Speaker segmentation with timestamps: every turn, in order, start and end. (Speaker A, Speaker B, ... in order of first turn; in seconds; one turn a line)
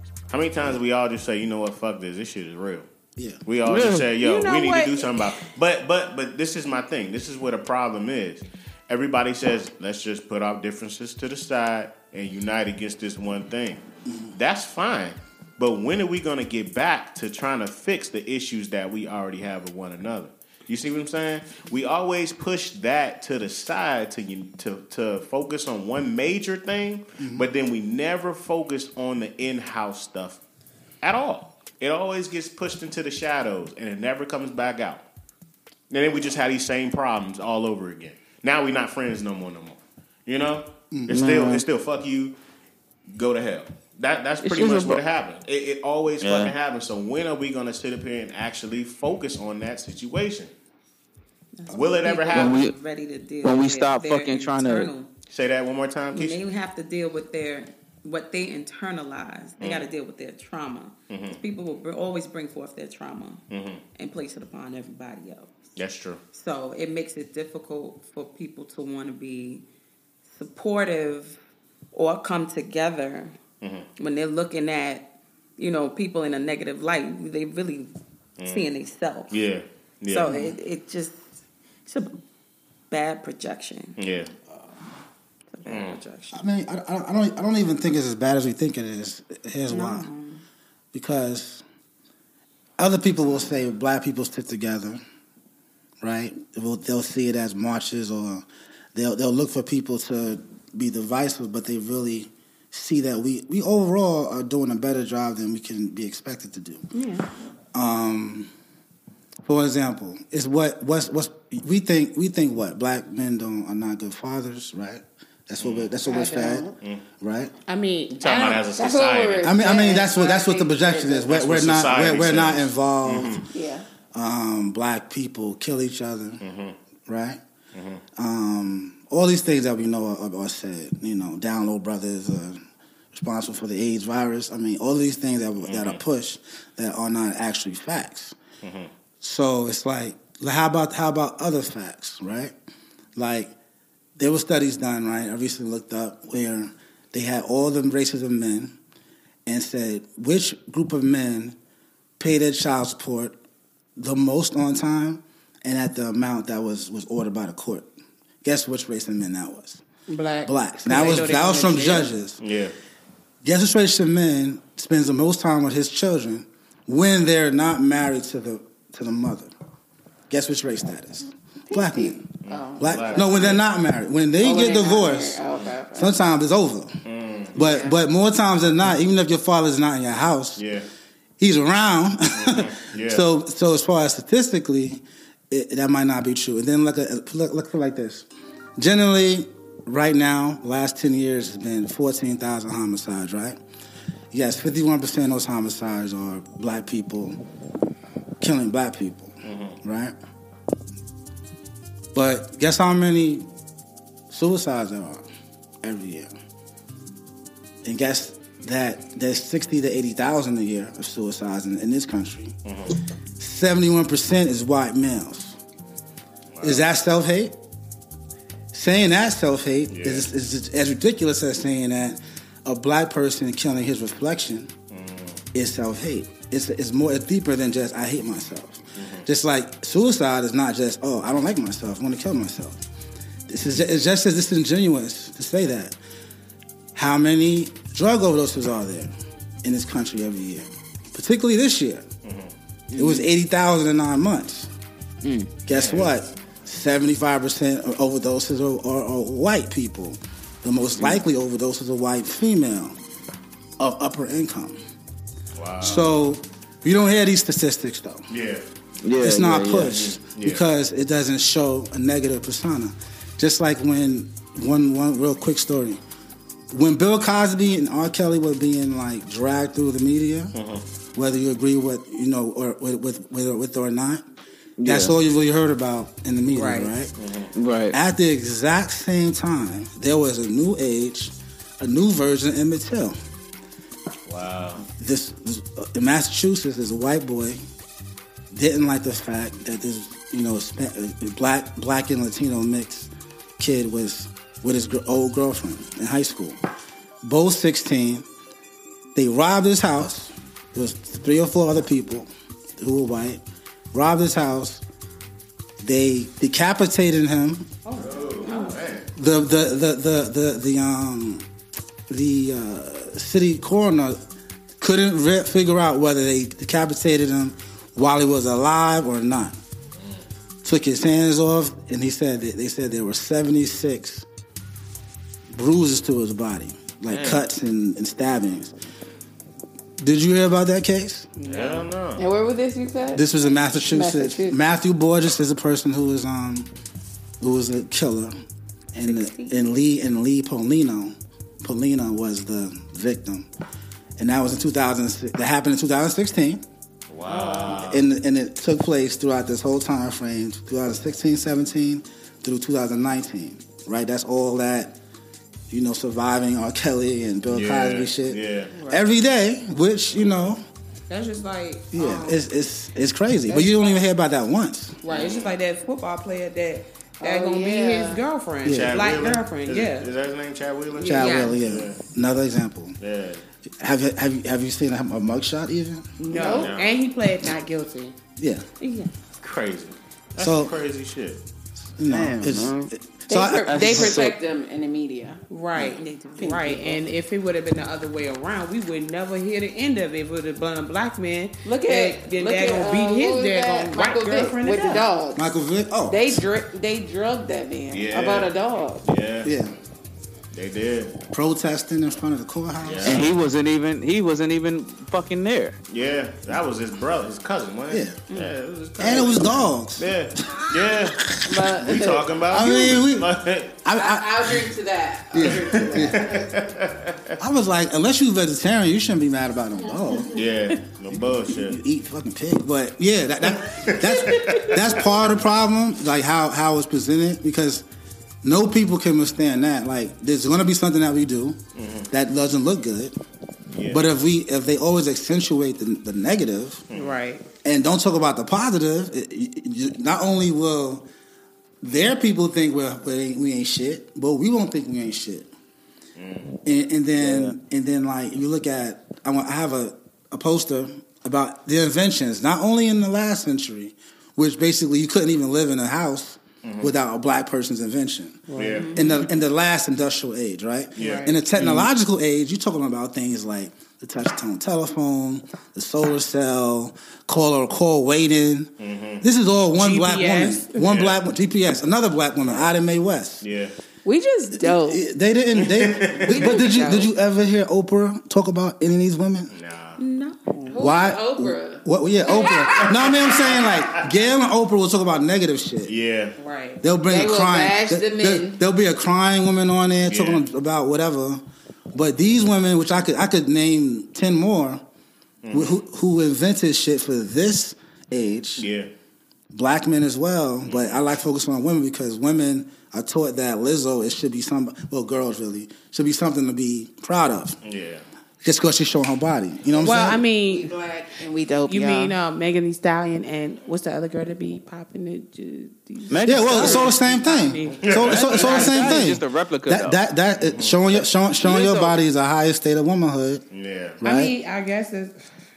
Speaker A: 0.3-2.9
Speaker B: 3.1-3.4
Speaker A: 3.5-30.4
Speaker C: 3.6-4.1
Speaker D: 4.2-5.4
Speaker B: 27.2-27.4
Speaker A: 31.0-35.0
Speaker A: 35.9-42.4
Speaker B: 40.9-41.2
Speaker C: 41.1-41.6
Speaker A: 43.1-50.5
Speaker C: 44.4-45.0
Speaker C: 46.2-46.5
Speaker E: 51.5-55.1
Speaker A: 51.7-52.6
Speaker C: 52.3-52.7
Speaker C: 53.4-54.9
Speaker A: 55.3-56.4
Speaker E: 56.1-63.4
Speaker A: 59.6-59.9
Speaker A: 61.1-61.4
Speaker A: 63.5-63.8
Speaker E: 64.0-65.5
Speaker A: 65.8-66.2
Speaker E: 66.3-69.6
Speaker E: 70.3-71.4
Speaker E: 71.9-73.3
Speaker A: 73.6-73.9
Speaker E: 74.0-79.3
Speaker A: 78.4-78.7
Speaker A: 79.3-80.3
Speaker E: 80.1-81.2
Speaker B: 80.2-80.5
Speaker E: 81.8-82.2
Speaker E: 82.9-84.0
Speaker A: 84.0-84.3
Speaker E: 85.5-86.4
Speaker A: 85.7-86.0
Speaker B: 86.3-90.1
Speaker E: 89.7-90.4
Speaker B: 90.9-91.6
Speaker B: 92.8-95.0
Speaker B: 96.0-106.9
Speaker B: 107.7-108.5
Speaker B: 109.4-116.7
Speaker A: 115.6-115.9
Speaker F: 116.0-116.7
Speaker B: 117.2-117.5
Speaker D: 117.7-118.6
Speaker A: 118.1-119.5
Speaker F: 118.2-121.3
Speaker B: 119.4-123.5
Speaker A: 121.3-123.5
Speaker F: 123.5-123.8
Speaker B: 124.1-126.4
Speaker A: 126.4-126.8
Speaker B: 127.1-127.4
Speaker A: 127.7-128.0
Speaker B: 128.2-132.6
Speaker B: 133.1-138.4
Speaker A: 135.6-136.0
Speaker A: 138.6-138.9
Speaker B: 139.2-142.5
Speaker B: 143.2-143.5
Speaker B: 144.2-148.8
Speaker B: 149.4-151.6
Speaker B: 152.2-153.4
Speaker B: 154.0-157.9
Speaker B: 158.4-159.8
Speaker D: 160.1-162.1
Speaker B: 160.4-162.4
Speaker A: 162.4-162.7
Speaker B: 163.4-169.5
Speaker B: 170.3-172.3
Speaker F: 171.7-173.6
Speaker A: 172.4-173.6
Speaker B: 172.8-175.4
Speaker F: 174.4-176.2
Speaker B: 175.9-177.0
Speaker A: 177.0-177.5
Speaker F: 177.5-177.9
Speaker B: 177.5-180.6
Speaker A: 180.6-180.9
Speaker B: 181.4-188.3
Speaker A: 182.3-183.2
Speaker B: 188.8-193.6
Speaker B: 194.3-197.4
Speaker B: 198.4-200.1
Speaker A: 199.4-199.8
Speaker B: 202.1-203.5
Speaker B: 204.3-205.2
Speaker B: 205.8-206.3
Speaker B: 207.8-212.5
Speaker A: 212.6-212.9
Speaker B: 213.4-215.6
Speaker A: 216.5-216.8
Speaker B: 216.6-217.5
Speaker B: 218.7-224.7
Speaker A: 219.9-220.3
Speaker A: 224.9-225.4
Speaker B: 225.5-232.8
Speaker A: 228.9-229.2
Speaker B: 233.5-236.0
Speaker B: 236.9-239.1
Speaker B: 239.6-242.1
Speaker A: 242.2-242.5
Speaker C: 242.9-243.3
Speaker B: 242.9-244.7
Speaker B: 245.7-252.9
Speaker A: 245.7-246.1
Speaker B: 253.8-254.8
Speaker A: 255.6-256.1
Speaker B: 255.8-258.2
Speaker A: 258.3-258.6
Speaker C: 259.0-259.9
Speaker B: 259.2-266.0
Speaker A: 259.9-260.6
Speaker B: 266.7-270.5
Speaker A: 270.5-270.8
Speaker B: 271.1-274.2
Speaker C: 274.8-275.1
Speaker B: 274.8-277.1
Speaker D: 276.5-276.9
Speaker A: 277.2-277.5
Speaker C: 277.5-278.0
Speaker B: 277.9-283.1
Speaker A: 284.3-284.8
Speaker B: 284.9-287.6
Speaker B: 288.5-296.6
Speaker B: 297.2-298.3
Speaker B: 299.1-303.4
Speaker B: 303.9-304.8
Speaker B: 305.8-307.7
Speaker D: 307.8-308.8
Speaker A: 307.9-309.0
Speaker B: 309.1-311.4
Speaker B: 312.1-314.2
Speaker B: 314.8-319.6
Speaker B: 320.6-324.2
Speaker B: 325.5-328.7
Speaker A: 327.1-327.4
Speaker B: 330.0-331.3
Speaker D: 331.4-331.9
Speaker A: 331.4-332.2
Speaker F: 332.2-334.6
Speaker B: 333.1-336.7
Speaker B: 337.4-338.3
Speaker B: 338.9-343.5
Speaker D: 339.2-339.5
Speaker B: 344.2-346.6
Speaker A: 347.1-348.1
Speaker D: 347.3-347.7
Speaker B: 347.6-354.9
Speaker B: 355.7-360.6
Speaker A: 357.5-358.7
Speaker D: 358.8-359.0
Speaker D: 361.1-362.4
Speaker B: 361.9-365.0
Speaker D: 363.5-364.0
Speaker D: 365.0-370.1
Speaker A: 365.1-365.6
Speaker F: 367.2-368.2
Speaker B: 368.6-369.0
Speaker A: 368.7-372.0
Speaker D: 370.9-371.6
Speaker B: 371.1-373.0
Speaker A: 373.0-373.4
Speaker B: 373.8-376.1
Speaker D: 376.2-378.1
Speaker A: 376.3-377.0
Speaker F: 376.3-376.7
Speaker B: 378.4-378.6
Speaker D: 378.8-379.1
Speaker A: 379.4-381.4
Speaker B: 380.4-380.7
Speaker B: 381.8-384.2
Speaker C: 382.1-382.9
Speaker F: 383.3-385.4
Speaker C: 383.6-384.3
Speaker D: 385.5-395.1
Speaker E: 386.0-386.6
Speaker F: 386.4-386.8
Speaker F: 391.6-395.4
Speaker B: 395.3-396.4
Speaker F: 396.1-399.1
Speaker A: 397.9-398.5
Speaker A: 399.0-399.5
Speaker B: 399.4-399.7
Speaker A: 400.5-401.2
Speaker B: 401.3-403.3
Speaker A: 402.8-403.3
Speaker C: 403.0-405.8
Speaker A: 405.9-413.7
Speaker B: 407.9-408.2
Speaker B: 409.0-411.8
Speaker F: 411.4-412.3
Speaker B: 412.5-414.7
Speaker F: 413.9-416.6
Speaker B: 415.3-416.2
Speaker A: 415.4-417.3
Speaker B: 417.4-420.4
Speaker A: 420.3-421.8
Speaker B: 421.1-427.8
Speaker A: 423.6-425.0
Speaker D: 424.4-424.7
Speaker B: 428.4-433.1
Speaker A: 431.8-432.1
Speaker A: 433.7-434.0
Speaker B: 433.9-436.8
Speaker A: 436.9-437.2
Speaker D: 436.9-437.4
Speaker B: 437.6-441.1
Speaker B: 441.8-445.5
Speaker A: 446.2-446.6
Speaker B: 446.6-473.4
Speaker C: 447.2-447.6
Speaker A: 456.6-456.9
Speaker D: 458.5-459.2
Speaker A: 458.6-459.0
Speaker A: 461.0-461.9
Speaker D: 461.0-461.3
Speaker A: 468.8-469.2
Speaker D: 469.8-470.8
Speaker A: 470.8-471.2
Speaker A: 473.4-473.7
Speaker F: 474.0-475.0
Speaker B: 474.6-479.5
Speaker A: 475.6-476.6
Speaker F: 476.3-477.1
Speaker A: 479.5-480.0
Speaker D: 480.5-480.8
Speaker F: 480.7-483.1
Speaker B: 480.8-485.9
Speaker A: 482.7-484.1
Speaker A: 485.9-486.4
Speaker D: 486.4-486.8
Speaker B: 486.8-491.4
Speaker F: 487.1-488.6
Speaker A: 490.1-490.4
Speaker B: 491.9-494.8
Speaker A: 495.4-495.8
Speaker B: 495.5-498.6
Speaker A: 498.6-498.9
Speaker B: 499.5-507.6
Speaker A: 500.6-501.1
Speaker A: 507.6-508.0
Speaker B: 508.4-510.2
Speaker F: 509.7-512.1
Speaker D: 509.8-510.7
Speaker D: 511.7-519.0
Speaker C: 516.1-516.9
Speaker B: 516.2-523.4
Speaker A: 517.8-518.7
Speaker C: 518.1-520.0
Speaker A: 520.4-521.0
Speaker C: 521.4-521.9
Speaker A: 523.5-524.0
Speaker B: 524.0-524.3
Speaker D: 524.0-525.2